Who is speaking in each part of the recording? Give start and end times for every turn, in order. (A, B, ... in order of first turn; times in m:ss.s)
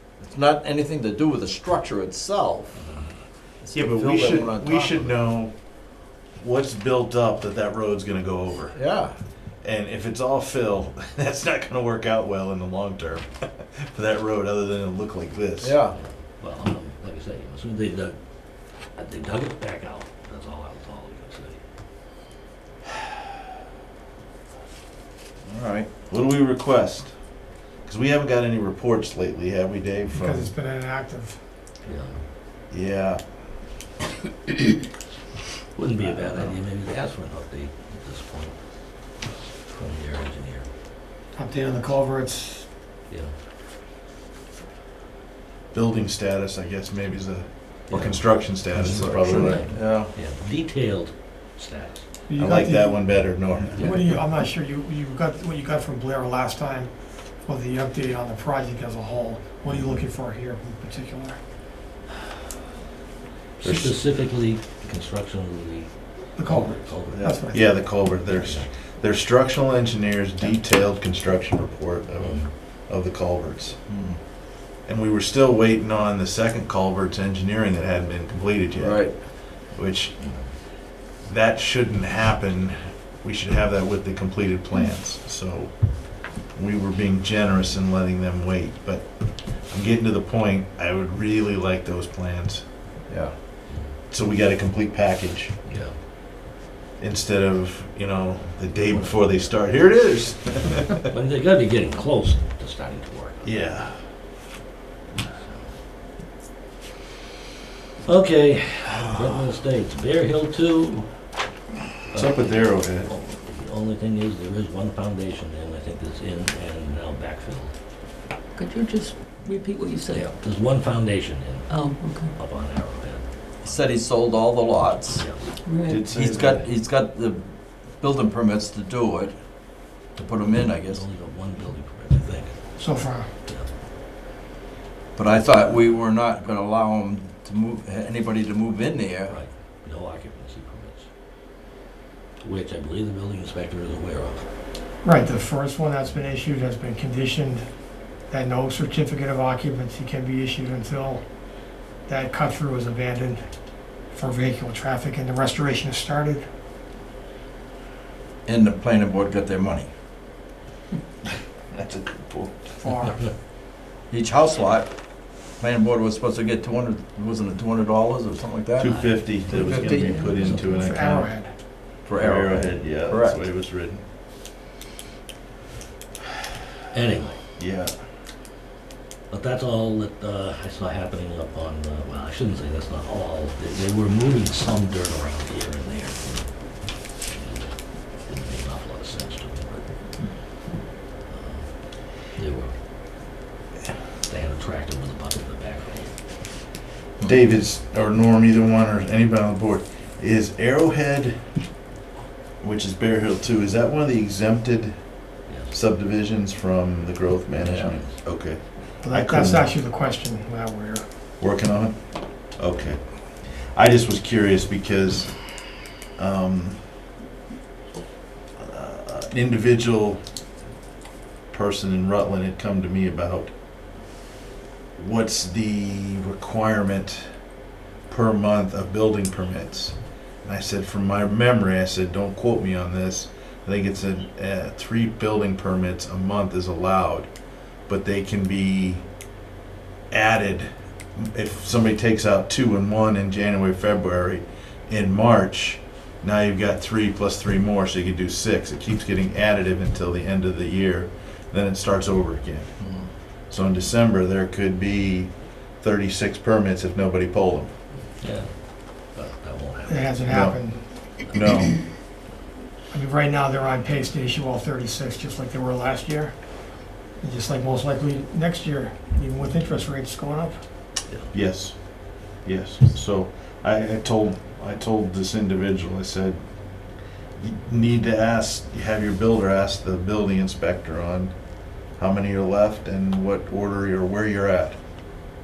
0:00.2-0:02.8 A
0:02.8-0:03.1 B
0:03.6-0:05.3 A
0:03.7-0:08.9 C
0:08.7-0:09.2 A
0:09.6-0:15.8 C
0:15.6-0:16.0 A
0:15.9-0:18.2 B
0:19.0-0:21.6 B
0:25.5-0:25.9 A
0:26.1-0:27.1 C
0:27.8-0:30.5 C
0:30.1-0:31.4 D
0:31.8-0:32.2 B
0:32.7-0:33.2 C
0:35.8-0:38.5 B
0:39.7-0:40.6 B
0:41.3-0:42.7 D
0:45.7-0:49.6 C
0:47.9-0:52.0 B
0:49.2-0:50.1 A
0:52.3-0:53.2 D
0:52.4-0:53.9 C
0:53.7-0:54.1 B
0:53.8-1:01.4 D
0:59.7-1:00.1 B
1:03.6-1:04.0 C
1:03.6-1:08.7 B
1:06.4-1:07.8 D
1:07.1-1:13.8 C
1:12.2-1:12.5 B
1:13.9-1:14.2 A
1:14.9-1:20.2 C
1:18.8-1:19.2 A
1:20.2-1:20.5 B
1:21.2-1:32.6 C
1:33.1-1:33.3 A
1:34.1-1:35.5 C
1:35.7-1:35.9 B
1:37.0-1:41.0 C
1:38.9-1:39.5 B
1:41.0-1:43.6 B
1:43.4-1:43.9 C
1:45.2-1:45.7 B
1:48.0-1:51.1 B
1:52.1-1:57.7 B
1:52.1-1:53.1 C
1:58.6-2:00.3 E
2:00.1-2:03.8 B
2:01.7-2:02.3 E
2:03.6-2:05.2 A
2:05.1-2:05.5 B
2:05.6-2:06.1 E
2:05.9-2:06.7 C
2:06.0-2:09.4 A
2:10.1-2:11.0 A
2:10.8-2:12.8 B
2:12.8-2:13.3 D
2:13.5-2:13.7 B
2:15.2-2:19.4 A
2:19.3-2:21.1 B
2:22.4-2:24.5 B
2:25.0-2:27.7 D
2:28.3-2:31.2 D
2:32.1-2:33.4 D
2:34.1-2:36.4 D
2:38.5-2:39.9 A
2:41.7-2:42.6 C
2:42.8-2:43.2 D
2:44.1-2:44.9 A
2:45.6-2:48.9 A
2:48.8-2:51.3 C
2:48.8-2:51.2 B
2:49.5-2:50.3 A
2:50.6-2:51.5 D
2:52.0-2:53.4 A
2:52.2-2:54.0 C
2:56.9-2:57.4 B
2:57.6-2:57.9 C
2:59.3-3:06.5 B
3:07.2-3:10.2 B
3:11.3-3:12.8 B
3:14.3-3:16.2 B
3:17.2-3:21.4 C
3:22.6-3:25.0 C
3:25.5-3:25.8 B
3:25.7-3:29.7 C
3:27.6-3:28.2 B
3:29.0-3:31.0 D
3:31.4-3:35.6 C
3:36.2-3:36.8 C
3:38.6-3:40.2 C
3:41.5-3:43.5 C
3:45.0-3:47.3 C
3:48.1-3:57.3 C
3:57.9-3:59.0 C
4:00.1-4:12.7 C
4:12.8-4:13.1 A
4:13.5-4:17.7 C
4:18.2-4:20.4 B
4:19.8-4:21.1 D
4:20.3-4:20.6 C
4:21.3-4:21.9 C
4:22.9-4:26.4 D
4:27.2-4:30.6 D
4:31.3-4:36.4 C
4:37.4-4:44.8 C